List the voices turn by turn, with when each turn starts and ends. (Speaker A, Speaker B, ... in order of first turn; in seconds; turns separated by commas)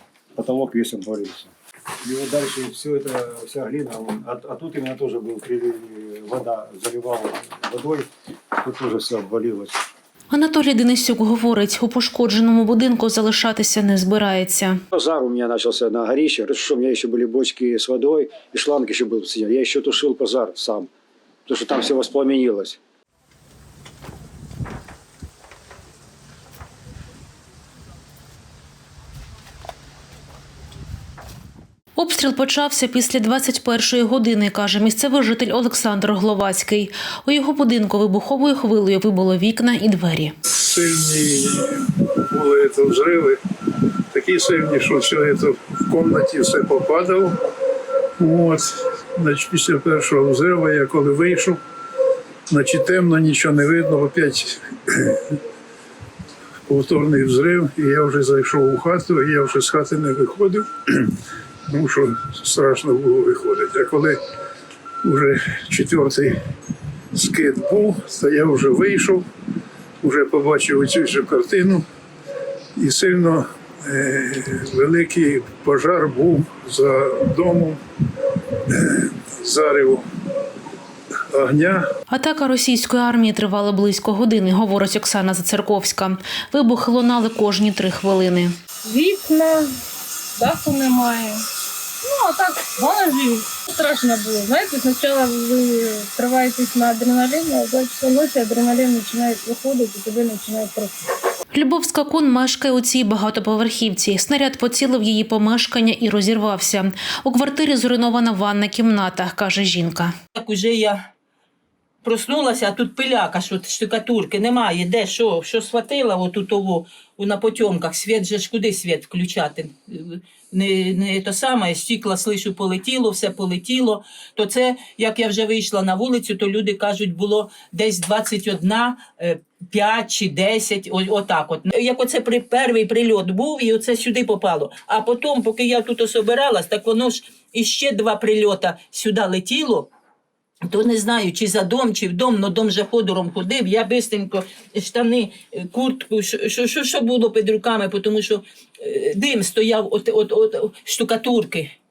Speaker A: 0.4-1.5, Speaker A: 2.0-9.8, Speaker B: 10.3-14.8, Speaker A: 14.9-20.9, Speaker A: 21.5-22.8, Speaker B: 31.9-40.3, Speaker C: 40.5-43.4, Speaker C: 44.1-47.4, Speaker C: 48.2-51.6, Speaker C: 52.5-55.4, Speaker C: 56.7-61.1, Speaker C: 61.7-64.2, Speaker C: 65.0-66.4, Speaker C: 67.1-69.2, Speaker C: 70.0-71.8, Speaker C: 72.8-80.0, Speaker C: 81.3-81.8, Speaker B: 82.1-88.5, Speaker D: 88.8-89.7, Speaker D: 90.4-91.4, Speaker D: 92.0-101.0, Speaker B: 101.5-110.1, Speaker E: 110.3-111.0, Speaker E: 112.0-139.9, Speaker E: 140.7-151.7